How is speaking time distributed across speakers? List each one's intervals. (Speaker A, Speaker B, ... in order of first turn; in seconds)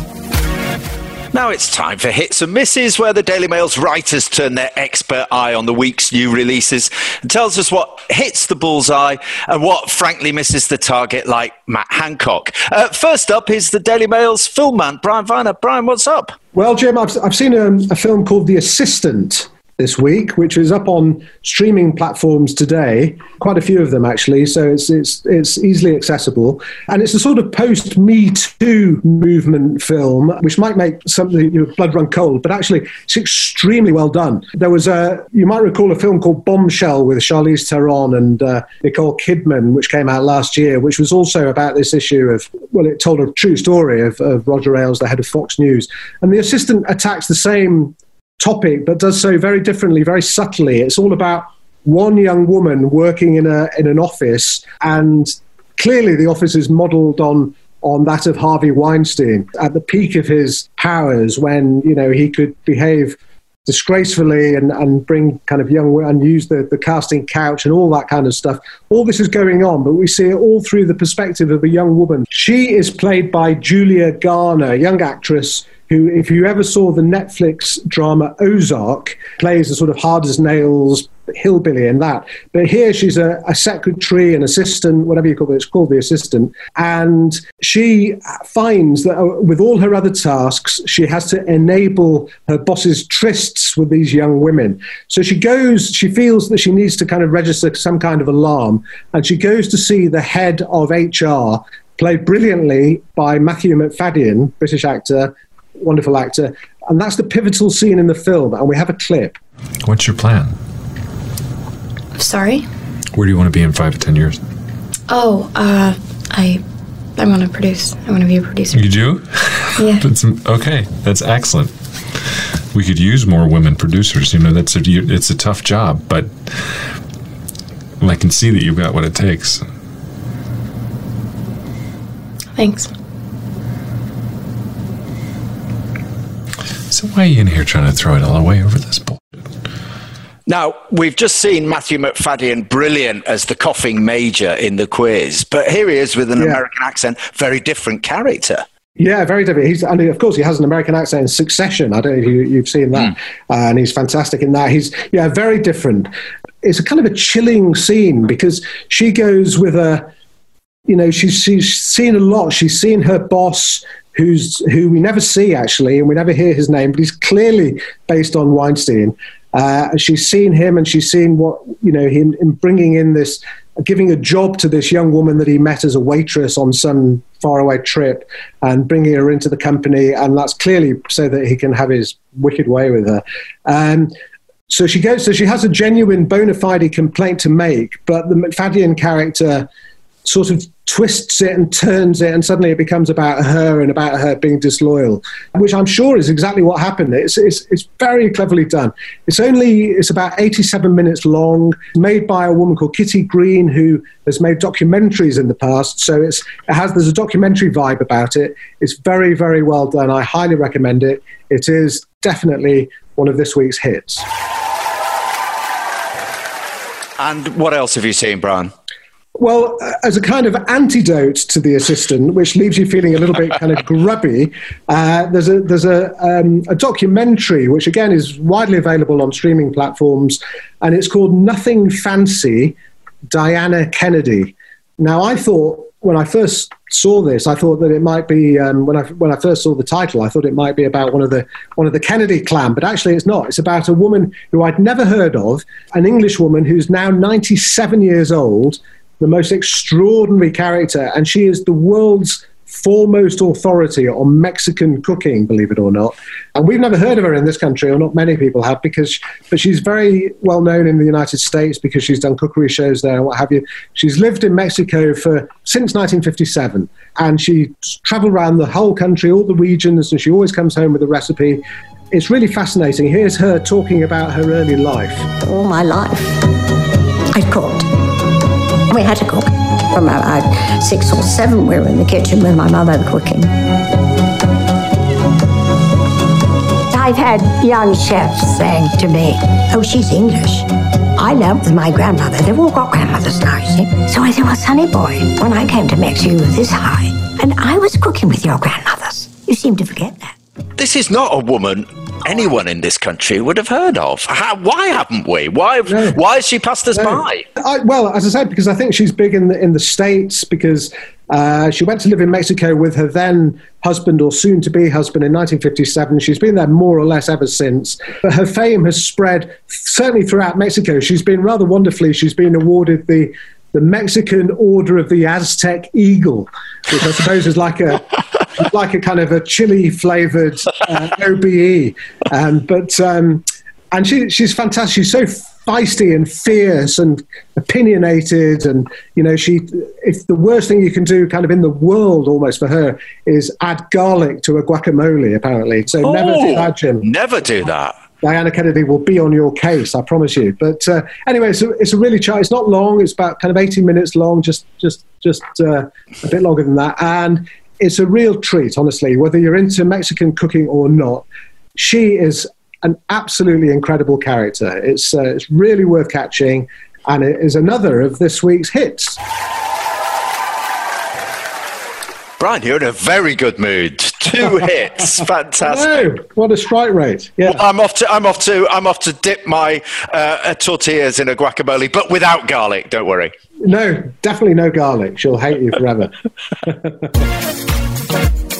Speaker A: 1.3-16.4, 140.5-148.6, 217.2-218.7, 300.8-307.4, 346.0-348.0, 372.4-376.0, 377.4-383.3
Speaker B: 16.5-109.3, 149.0-156.1, 156.6-160.1, 160.9-184.1, 184.7-189.7, 190.2-214.2, 219.3-232.8, 233.3-275.2, 305.9-306.2, 306.9-347.1, 348.2-369.2, 375.6-377.6, 383.6-386.1, 386.6-387.1
Speaker C: 109.8-110.5, 113.1-114.4, 118.7-121.7, 122.7-126.5, 128.0-129.7, 136.9-139.2
Speaker D: 112.1-112.7, 115.1-116.6, 117.2-119.1, 119.8-120.0, 132.5-132.9
Speaker E: 275.4-276.5, 277.3-277.9, 278.9-283.5, 286.9-300.3